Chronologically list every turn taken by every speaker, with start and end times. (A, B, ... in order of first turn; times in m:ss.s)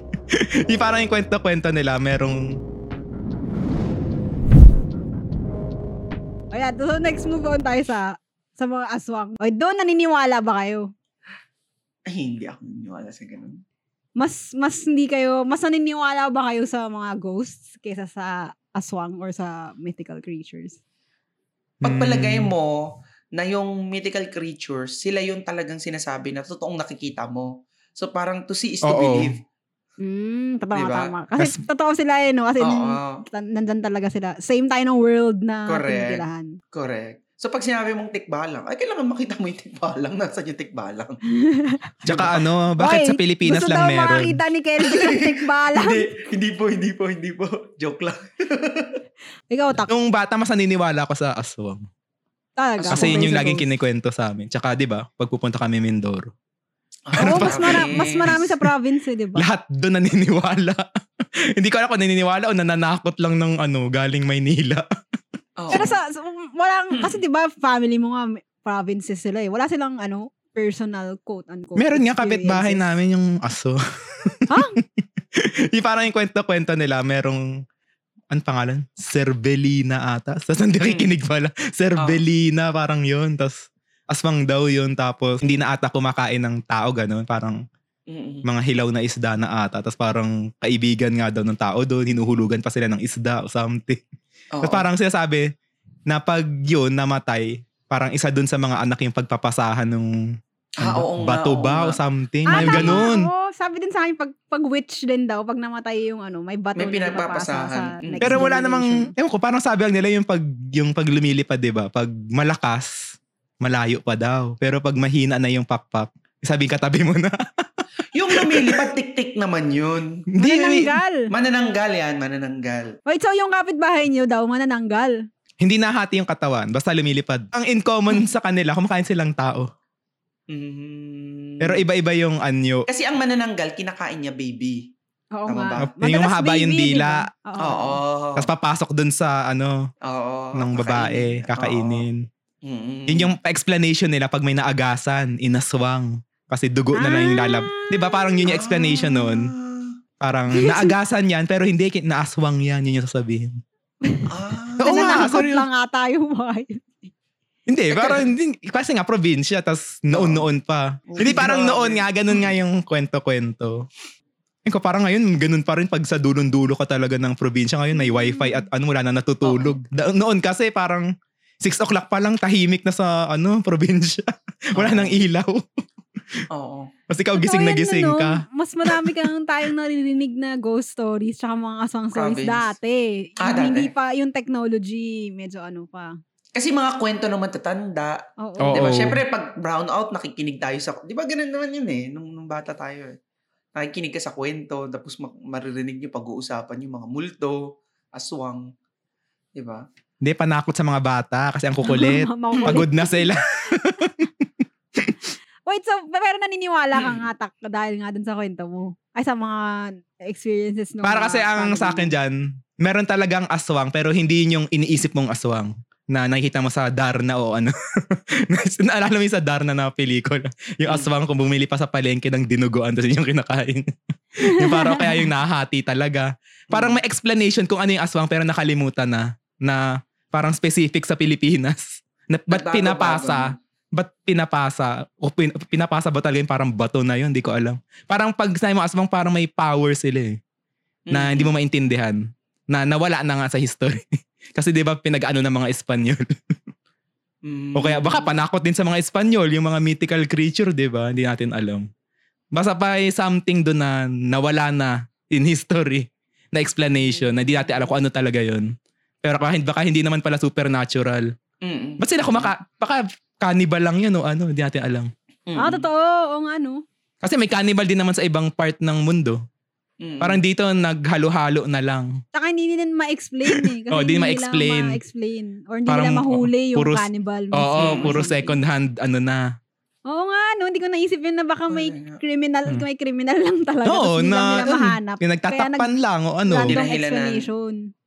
0:00.3-0:02.6 A
0:06.5-0:10.9 B
0:12.1-0:13.6 C
0:14.2-0:20.8 B
0:21.8-0:22.8 C
0:21.8-0:22.5 A
0:23.4-0:29.4 C
0:28.8-0:29.3 A
0:30.0-0:36.5 B
0:30.7-0:31.1 C
0:32.6-0:33.2 C
0:35.7-0:41.2 C
0:41.4-0:42.0 B
0:42.0-0:42.4 C
0:42.1-0:44.4 A
0:42.8-0:46.1 B
0:44.8-0:49.0 C
0:49.5-0:49.9 B
0:49.8-0:51.9 A
0:52.6-0:53.7 B
0:52.8-0:53.3 C
0:52.9-0:56.3 A
0:57.1-0:58.4 C
0:57.1-0:58.7 A
0:57.2-0:59.5 B
0:59.4-1:00.8 A
1:01.5-1:04.8 A
1:05.6-1:05.9 C
1:05.7-1:12.9 B
1:06.9-1:07.2 C
1:11.8-1:17.6 A
1:14.5-1:14.8 B
1:18.3-1:27.6 A
1:20.8-1:21.1 C
1:22.0-1:22.2 C
1:28.1-1:28.5 C
1:28.4-1:34.0 A
1:34.5-1:34.9 C
1:34.6-1:35.5 A
1:36.1-1:40.1 A
1:40.8-1:43.1 C
1:40.8-1:43.3 A
1:42.5-1:49.1 B
1:46.8-1:48.4 C
1:48.2-1:58.8 A
1:58.1-2:00.2 C
2:00.3-2:00.9 A
2:00.4-2:01.3 B
2:01.3-2:02.9 C
2:03.1-2:05.2 B
2:05.6-2:09.7 A
2:10.5-2:11.8 C
2:11.6-2:12.9 A
2:12.9-2:14.9 C
2:15.4-2:18.0 B
2:15.5-2:15.9 C
2:15.8-2:17.3 A
2:17.6-2:18.5 C
2:18.4-2:19.9 A
2:20.0-2:22.1 C
2:20.6-2:22.2 A
2:22.6-2:23.3 C
2:23.1-2:29.5 A
2:26.9-2:28.5 B
2:28.5-2:30.0 C
2:30.2-2:33.6 A
2:30.6-2:31.0 B
2:34.0-2:37.1 B
2:34.3-2:35.4 C
2:34.8-2:35.7 A
2:37.7-2:43.8 A
2:37.9-2:38.3 C
2:40.1-2:40.5 C
2:41.1-2:42.5 C
2:44.7-2:55.8 A
2:48.0-2:48.6 B
2:49.4-2:49.8 C
2:54.8-2:55.2 C
2:56.5-2:56.9 C
2:57.1-2:59.3 A
2:57.4-3:06.1 B
3:02.1-3:02.7 C
3:03.4-3:03.9 C
3:06.6-3:13.2 C
3:08.4-3:08.9 B
3:08.6-3:09.2 A
3:13.8-3:18.6 C
3:19.6-3:19.8 C
3:20.2-3:24.5 A
3:21.8-3:23.3 B
3:25.0-3:25.2 A
3:25.7-3:32.1 B
3:26.9-3:27.3 C
3:31.0-4:00.4 A
3:44.4-3:45.3 B
3:46.7-3:47.0 C
3:52.5-3:53.6 C
4:01.1-4:01.5 C
4:01.1-4:04.0 A
4:04.6-4:06.3 A
4:07.4-4:08.3 C
4:07.8-4:11.9 A
4:12.5-4:18.7 A
4:19.2-4:21.3 A
4:21.6-4:22.5 C
4:22.0-4:25.1 A
4:25.5-4:25.9 C
4:25.6-4:26.8 B
4:27.2-4:29.4 A
4:30.0-4:30.4 C
4:30.2-4:32.1 A
4:32.3-4:38.6 B
4:33.5-4:35.0 A
4:35.9-4:39.4 A
4:37.8-4:38.2 C
4:40.1-4:45.9 B
4:41.7-4:42.2 C
4:43.8-4:46.8 A
4:46.4-4:47.8 B
4:46.7-4:47.5 C